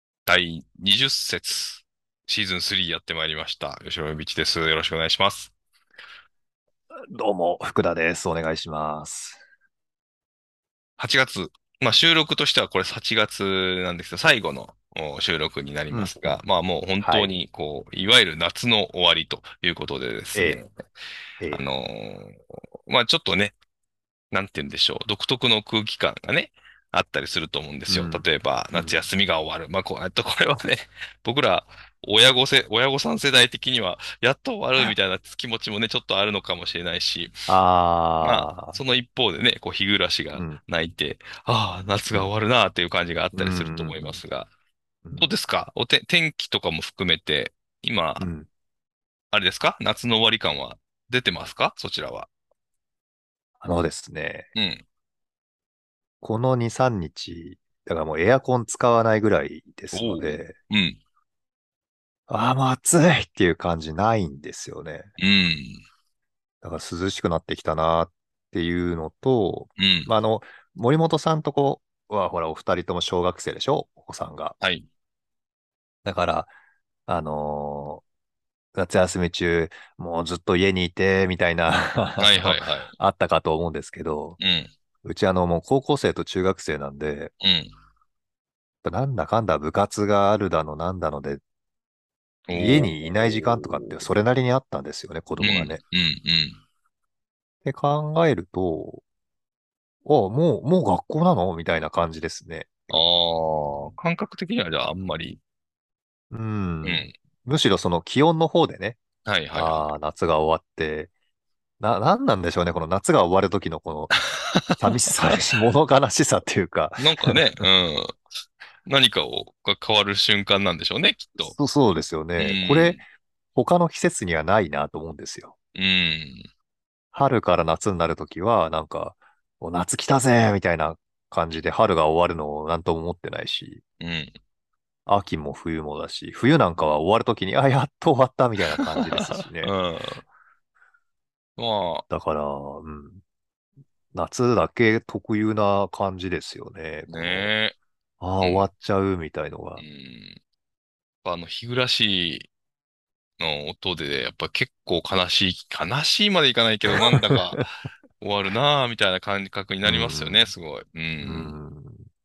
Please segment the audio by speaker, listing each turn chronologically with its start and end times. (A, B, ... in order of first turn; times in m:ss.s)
0:00.2-0:05.5 A
0:07.1-0:09.4 B
0:11.0-0:20.7 A
0:17.0-0:17.3 B
0:20.3-0:20.6 B
0:21.4-0:21.6 B
0:21.5-0:23.5 A
0:24.3-0:37.4 A
0:27.9-0:29.0 B
0:37.5-0:38.8 B
0:38.2-0:44.5 A
0:40.3-0:40.6 B
0:43.3-0:44.2 B
0:45.0-0:45.3 B
0:45.2-0:48.3 A
0:48.2-0:48.5 B
0:49.3-0:52.3 A
0:53.6-0:54.5 B
0:54.5-0:54.8 A
0:56.2-1:00.6 B
0:59.9-1:01.0 A
1:02.3-1:05.1 B
1:05.2-1:05.8 A
1:06.6-1:14.6 B
1:09.8-1:10.1 A
1:14.6-1:14.8 A
1:16.0-1:16.5 B
1:17.1-1:18.0 B
1:18.7-1:24.4 B
1:22.2-1:22.9 A
1:24.4-1:24.7 A
1:25.0-1:27.3 B
1:27.4-1:27.7 A
1:28.8-1:31.4 B
1:32.5-1:33.7 A
1:32.5-1:35.8 B
1:35.4-1:36.6 A
1:37.6-1:39.0 B
1:40.0-1:43.0 B
1:42.9-1:45.4 A
1:46.3-1:49.0 B
1:46.8-1:47.1 A
1:49.2-1:49.9 A
1:49.5-1:51.1 B
1:51.8-1:54.2 B
1:54.8-1:57.4 B
1:57.0-1:58.2 A
1:58.8-2:01.6 A
2:01.4-2:03.0 B
2:02.4-2:03.0 A
2:03.5-2:05.5 B
2:05.7-2:06.5 A
2:07.1-2:13.8 B
2:14.0-2:14.3 A
2:15.0-2:19.7 B
2:19.0-2:20.2 A
2:21.6-2:22.0 A
2:22.1-2:23.2 B
2:24.1-2:27.5 B
2:27.1-2:27.8 A
2:28.2-2:29.8 B
2:28.4-2:28.7 A
2:29.8-2:30.4 A
2:31.2-2:32.5 A
2:33.4-2:37.6 A
2:37.0-2:37.6 B
2:38.2-2:41.5 A
2:39.8-2:40.5 B
2:41.2-2:42.1 B